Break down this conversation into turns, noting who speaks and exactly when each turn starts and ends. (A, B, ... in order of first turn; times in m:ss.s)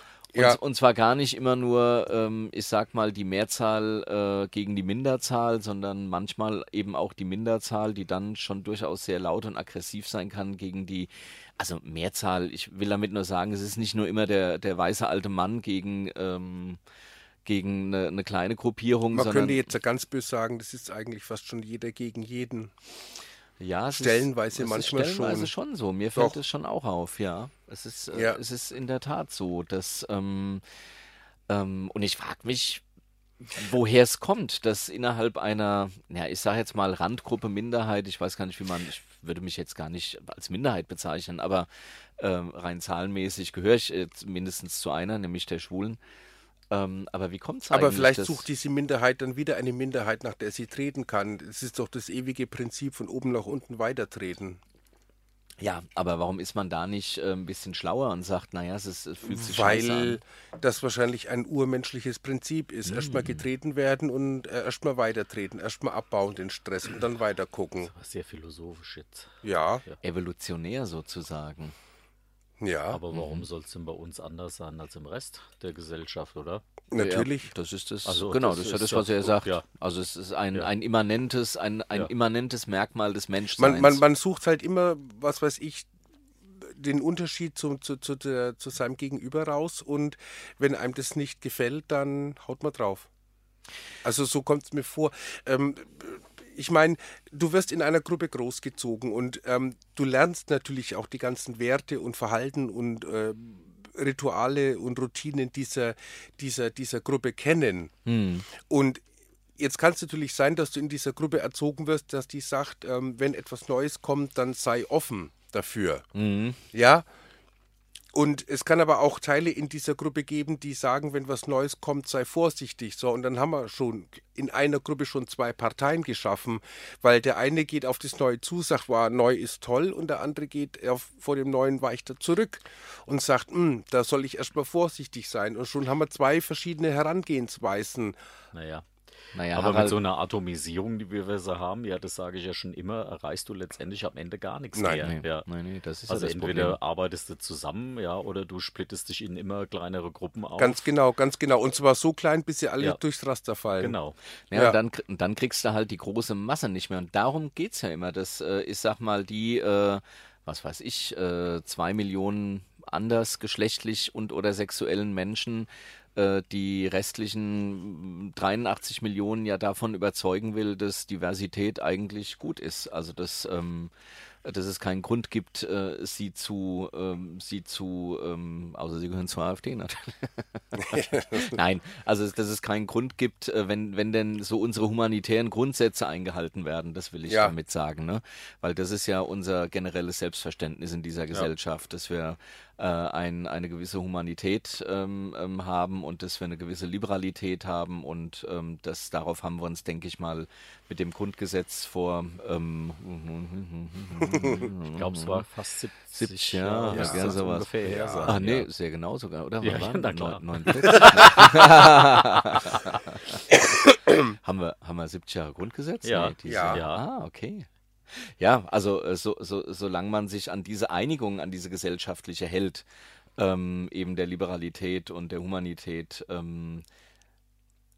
0:00.3-0:00.6 A
0:00.3-0:16.8 B
0:17.4-0:19.7 B
0:19.1-0:22.7 A
0:23.6-0:30.6 B
0:23.9-0:25.5 A
0:28.1-0:28.4 A
0:31.5-0:32.8 B
0:33.4-0:46.0 B
0:46.7-0:48.4 B
0:47.7-0:54.6 A
0:55.6-1:00.2 B
0:59.2-1:07.9 A
1:02.8-1:03.4 B
1:07.9-1:09.3 C
1:09.4-1:09.8 A
1:10.0-1:11.7 B
1:12.6-1:13.0 A
1:12.9-1:16.6 C
1:13.1-1:13.4 B
1:16.9-1:17.5 A
1:16.9-1:24.0 B
1:18.0-1:19.6 C
1:23.6-1:25.9 A
1:26.6-1:33.1 A
1:34.0-1:47.9 A
1:48.0-1:48.5 B
1:48.5-1:49.0 A
1:49.6-1:56.0 A
1:56.1-1:56.6 B
1:56.7-1:57.0 A
1:58.1-2:18.2 A
2:18.5-2:18.9 C
2:19.3-2:20.0 B
2:19.5-2:25.4 C
2:24.7-2:25.0 A
2:24.9-2:26.8 B
2:26.1-2:30.8 C
2:30.6-2:34.0 A
2:33.8-2:34.2 C
2:34.5-2:53.9 B
2:54.4-3:25.4 B
3:00.8-3:01.5 A
3:07.3-3:07.5 A
3:24.9-3:28.7 C
3:26.1-3:33.5 B
3:26.9-3:28.3 A
3:29.6-3:31.6 C
3:33.8-3:34.1 A
3:34.3-3:42.8 B
3:36.0-3:37.0 C
3:36.4-3:36.8 A
3:43.4-3:46.8 B